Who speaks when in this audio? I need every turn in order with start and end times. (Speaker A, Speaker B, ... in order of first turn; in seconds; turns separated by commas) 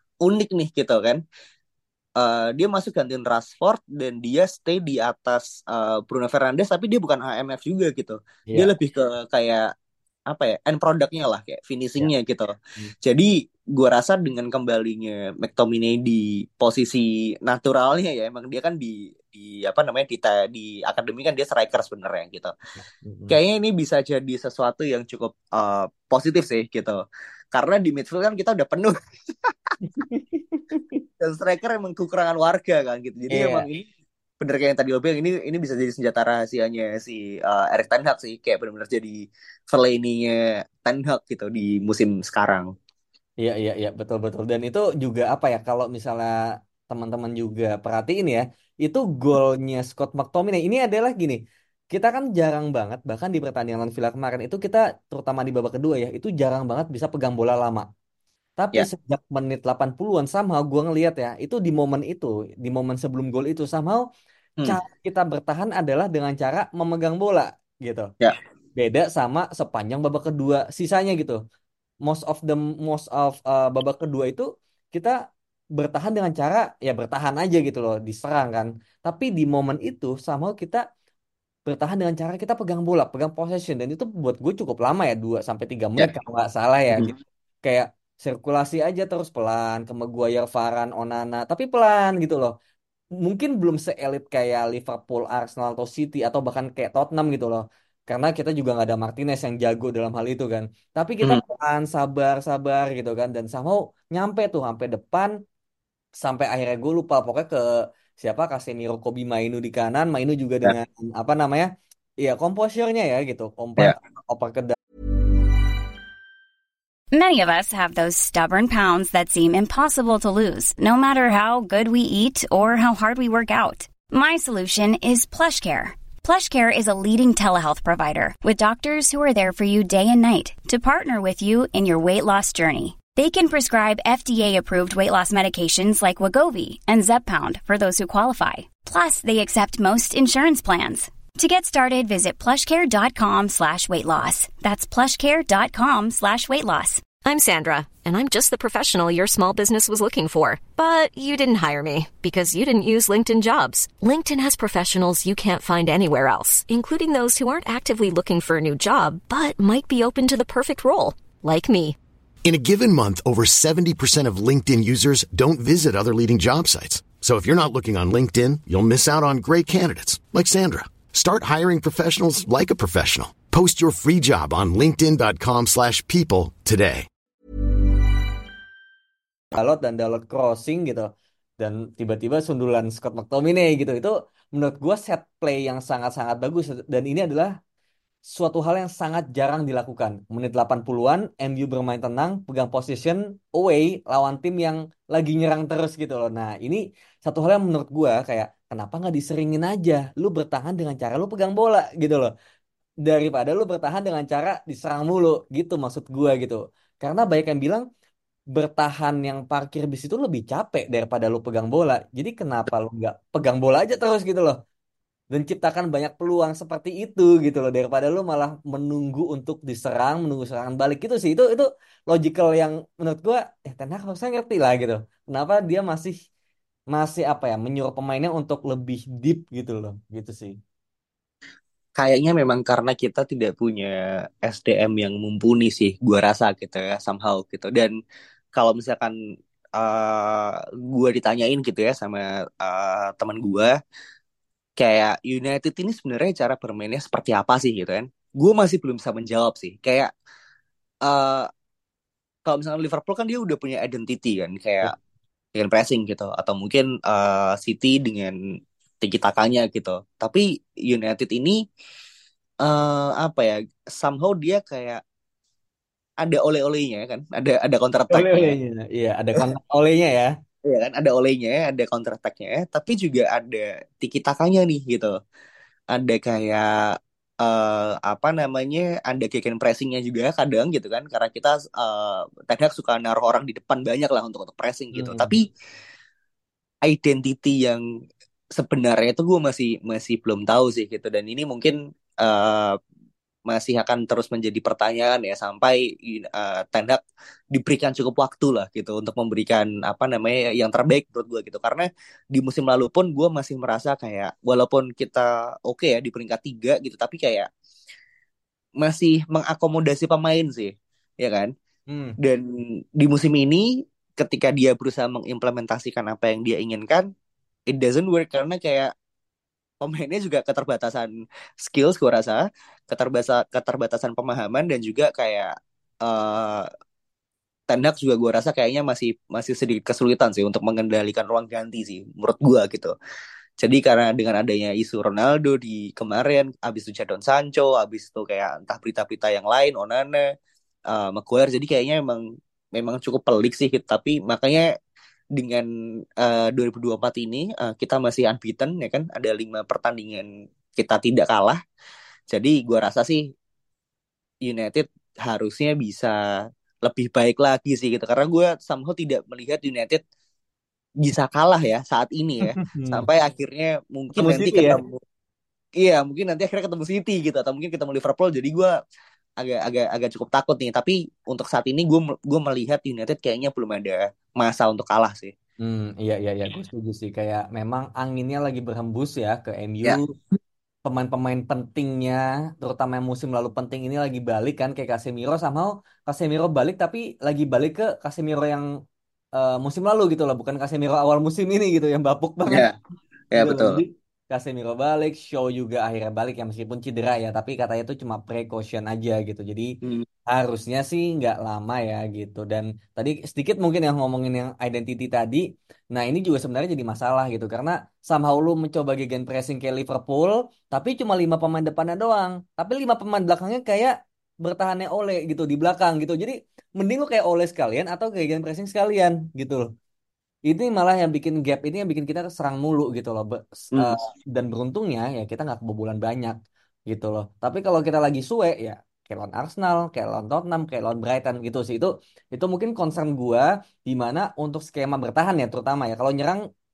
Speaker A: 0.2-1.2, Speaker A: 2.2-9.7, Speaker A: 10.3-22.5, Speaker B: 22.8-23.4, Speaker A: 23.3-27.0, Speaker A: 27.5-28.9, Speaker B: 29.8-31.0, Speaker A: 31.2-33.9, Speaker B: 33.3-33.6, Speaker A: 34.4-42.7, Speaker B: 43.4-46.4, Speaker B: 46.9-51.4, Speaker B: 51.9-57.9, Speaker B: 58.6-64.0, Speaker B: 64.7-68.1, Speaker B: 68.8-71.4, Speaker B: 72.0-75.2, Speaker B: 75.8-80.8, Speaker B: 81.7-87.1, Speaker B: 87.6-92.5, Speaker B: 93.2-105.3, Speaker B: 106.2-111.7, Speaker B: 112.2-114.8, Speaker C: 117.1-147.0, Speaker D: 147.2-161.9, Speaker E: 162.4-177.1, Speaker B: 179.5-187.5, Speaker B: 188.3-202.3, Speaker B: 203.0-207.8, Speaker B: 208.5-214.6, Speaker B: 215.3-226.2, Speaker B: 226.9-230.6, Speaker A: 232.0-237.9, Speaker A: 238.5-239.1, Speaker A: 239.8-243.8, Speaker A: 244.8-250.1, Speaker A: 251.0-251.5, Speaker A: 252.5-254.9, Speaker A: 255.5-258.4, Speaker A: 259.0-261.6, Speaker A: 262.6-265.0, Speaker A: 266.2-268.5, Speaker B: 268.1-270.3, Speaker A: 270.6-275.1, Speaker A: 275.9-285.5, Speaker B: 284.9-285.4, Speaker A: 286.9-287.8, Speaker A: 288.5-292.8, Speaker A: 293.5-297.0, Speaker A: 297.5-307.5, Speaker A: 308.8-311.5, Speaker B: 311.9-312.1, Speaker A: 312.2-313.7, Speaker A: 314.2-317.1, Speaker A: 317.7-318.9, Speaker A: 319.8-326.6, Speaker A: 327.7-332.9, Speaker A: 333.6-340.2, Speaker A: 340.9-342.2, Speaker A: 342.8-344.6, Speaker A: 345.4-345.7, Speaker A: 346.2-351.6, Speaker A: 352.3-353.3, Speaker A: 354.4-356.1, Speaker A: 356.9-360.0, Speaker A: 361.0-365.0, Speaker B: 362.5-363.0, Speaker B: 364.1-364.8, Speaker A: 365.8-368.8, Speaker A: 369.4-375.3, Speaker B: 375.6-380.1, Speaker B: 380.9-388.6, Speaker B: 389.4-392.6, Speaker A: 392.5-392.7, Speaker A: 393.3-393.8, Speaker B: 393.4-399.7, Speaker B: 400.3-419.7, Speaker B: 420.5-426.4, Speaker B: 426.9-436.4